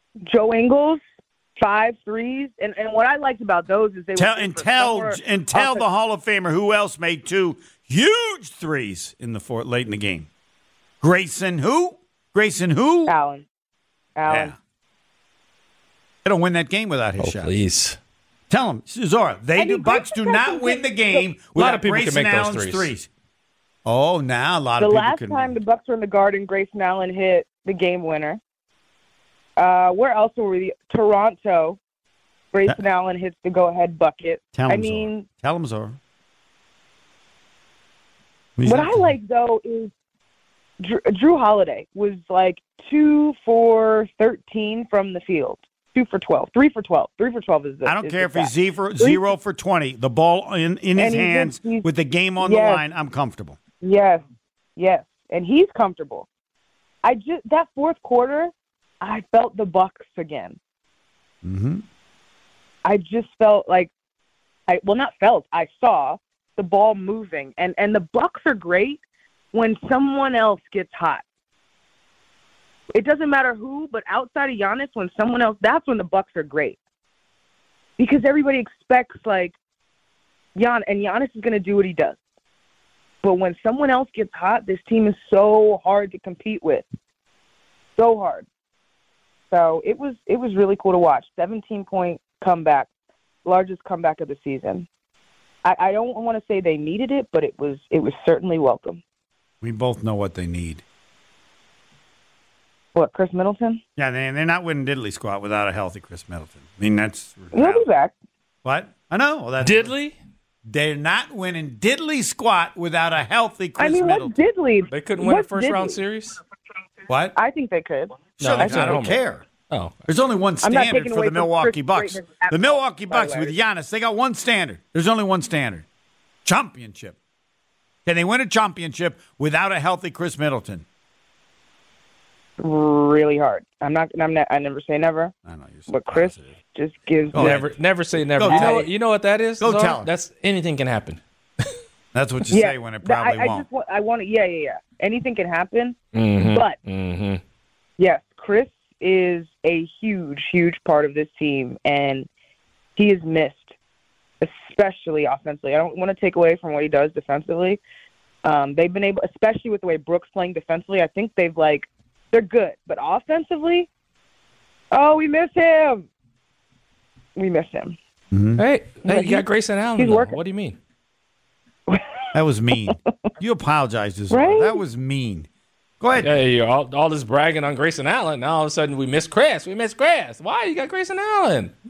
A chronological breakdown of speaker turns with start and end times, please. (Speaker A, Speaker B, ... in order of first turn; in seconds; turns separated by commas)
Speaker A: 0.2-1.0, Speaker A: 1.6-5.8, Speaker B: 4.2-10.3, Speaker B: 11.0-13.1, Speaker A: 13.1-13.4, Speaker A: 14.2-14.5, Speaker B: 14.3-14.5, Speaker B: 16.2-17.5, Speaker C: 17.2-18.0, Speaker B: 18.5-23.1, Speaker A: 19.6-21.2, Speaker C: 21.5-22.9, Speaker B: 23.8-25.5, Speaker A: 24.8-28.4, Speaker A: 29.6-31.8, Speaker A: 32.5-35.3, Speaker B: 34.5-36.0, Speaker B: 38.6-39.1, Speaker A: 38.6-39.9, Speaker A: 40.8-49.2, Speaker B: 47.8-53.6, Speaker A: 51.0-51.9, Speaker A: 52.4-52.8, Speaker A: 53.8-54.2, Speaker A: 54.8-56.3, Speaker A: 57.0-60.6, Speaker B: 61.4-61.8, Speaker A: 62.8-63.9, Speaker A: 64.7-69.0, Speaker A: 69.5-71.2, Speaker A: 72.9-76.8, Speaker A: 78.0-79.6, Speaker A: 80.5-82.2, Speaker A: 83.2-86.8, Speaker A: 88.0-88.5, Speaker A: 89.5-92.9, Speaker A: 93.4-94.9, Speaker A: 95.6-99.0, Speaker B: 99.6-100.8, Speaker A: 102.9-103.8, Speaker B: 104.0-107.8, Speaker A: 107.5-108.1, Speaker B: 108.6-109.9, Speaker C: 109.6-110.2, Speaker B: 110.7-114.3, Speaker A: 113.8-116.0, Speaker C: 114.9-116.4, Speaker B: 117.1-117.3, Speaker A: 117.3-119.0, Speaker B: 118.4-119.5, Speaker C: 118.4-119.9, Speaker B: 120.0-125.8, Speaker A: 120.6-123.5, Speaker B: 126.4-127.2, Speaker B: 128.1-130.8, Speaker A: 132.6-135.3, Speaker B: 135.5-136.4, Speaker A: 135.9-137.7, Speaker B: 137.3-137.7, Speaker C: 137.3-141.2, Speaker B: 138.3-138.9, Speaker A: 138.4-138.9, Speaker B: 139.6-140.1, Speaker B: 142.1-143.7, Speaker A: 142.5-146.8, Speaker C: 146.1-147.4, Speaker A: 148.0-152.3, Speaker A: 152.9-153.7, Speaker A: 154.4-157.8, Speaker A: 158.4-163.9, Speaker A: 164.9-166.1, Speaker A: 167.3-168.0, Speaker B: 168.3-168.6, Speaker C: 168.6-170.8, Speaker A: 169.0-170.4, Speaker A: 171.9-172.1, Speaker B: 172.3-175.5, Speaker A: 174.3-174.8, Speaker B: 176.0-176.3, Speaker C: 176.2-181.7